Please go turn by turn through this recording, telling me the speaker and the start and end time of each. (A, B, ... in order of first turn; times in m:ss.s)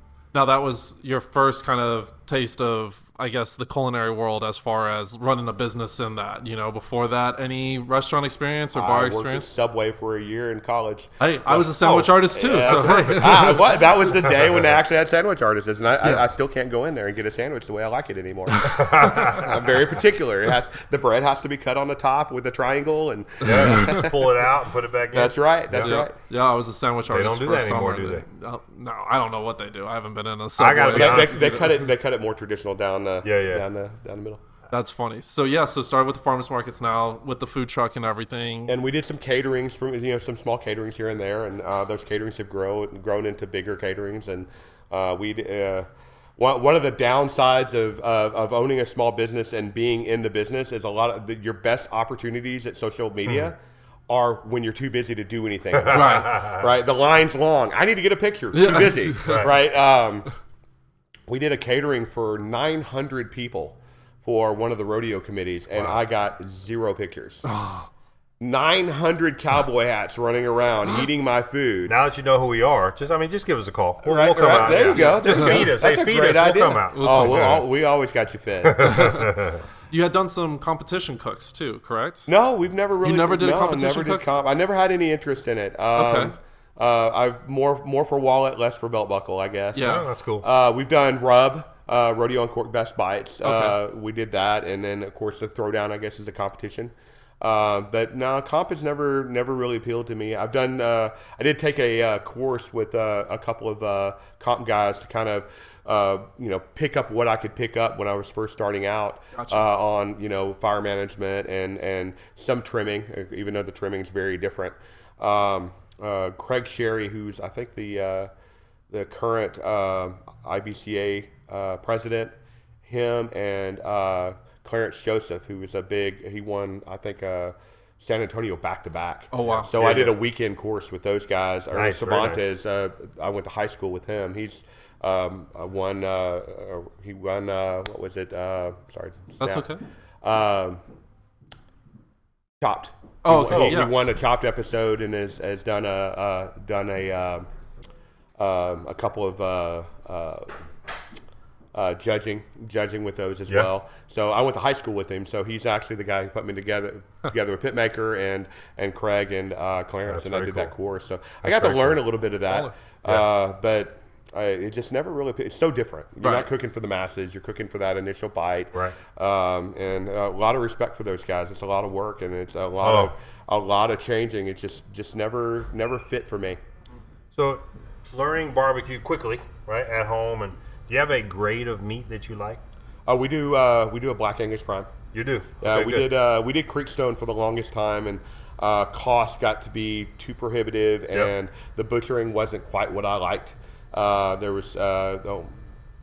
0:00.3-0:09.5 A
0:08.7-0:11.6 B
0:11.2-0:13.8 A
0:11.7-0:13.4 C
0:12.2-0:24.4 B
0:18.6-0:19.8 C
0:23.4-0:26.0 C
0:23.6-0:24.1 A
0:25.1-0:26.1 B
0:25.8-0:31.8 A
0:27.1-0:28.3 C
0:30.6-0:31.6 C
0:30.9-0:34.4 B
0:33.2-0:33.6 C
0:34.7-0:38.8 A
0:38.7-0:53.6 B
0:54.1-1:00.3 B
0:55.8-0:56.6 C
0:55.9-0:56.4 A
0:58.5-0:59.5 A
0:59.2-0:59.5 C
1:01.3-1:07.4 B
1:05.7-1:06.0 C
1:07.4-1:07.9 A
1:08.4-1:11.9 B
1:11.9-1:17.6 C
1:14.0-1:19.2 B
1:15.0-1:15.6 A
1:16.9-1:17.6 A
1:18.6-1:19.6 C
1:19.9-1:22.3 A
1:22.3-1:58.3 B
1:23.0-1:24.3 A
1:26.0-1:26.3 A
1:29.7-1:30.0 A
1:29.8-1:30.4 C
1:33.4-1:33.8 A
1:49.3-1:49.7 A
1:58.9-2:19.7 B
2:09.3-2:09.7 A
2:09.4-2:10.2 C
2:11.7-2:12.4 C
2:19.4-2:19.8 A
2:20.2-2:20.8 B
2:22.6-2:27.5 B
2:23.2-2:23.9 A
2:23.5-2:23.9 C
2:28.4-2:30.6 B
2:31.7-2:56.6 B
2:40.1-2:40.7 C
2:41.4-2:42.0 C
2:46.2-2:46.5 A
2:52.8-2:53.1 C
2:57.3-3:02.6 C
3:03.1-3:04.9 B
3:05.1-3:06.1 C
3:05.6-3:15.5 B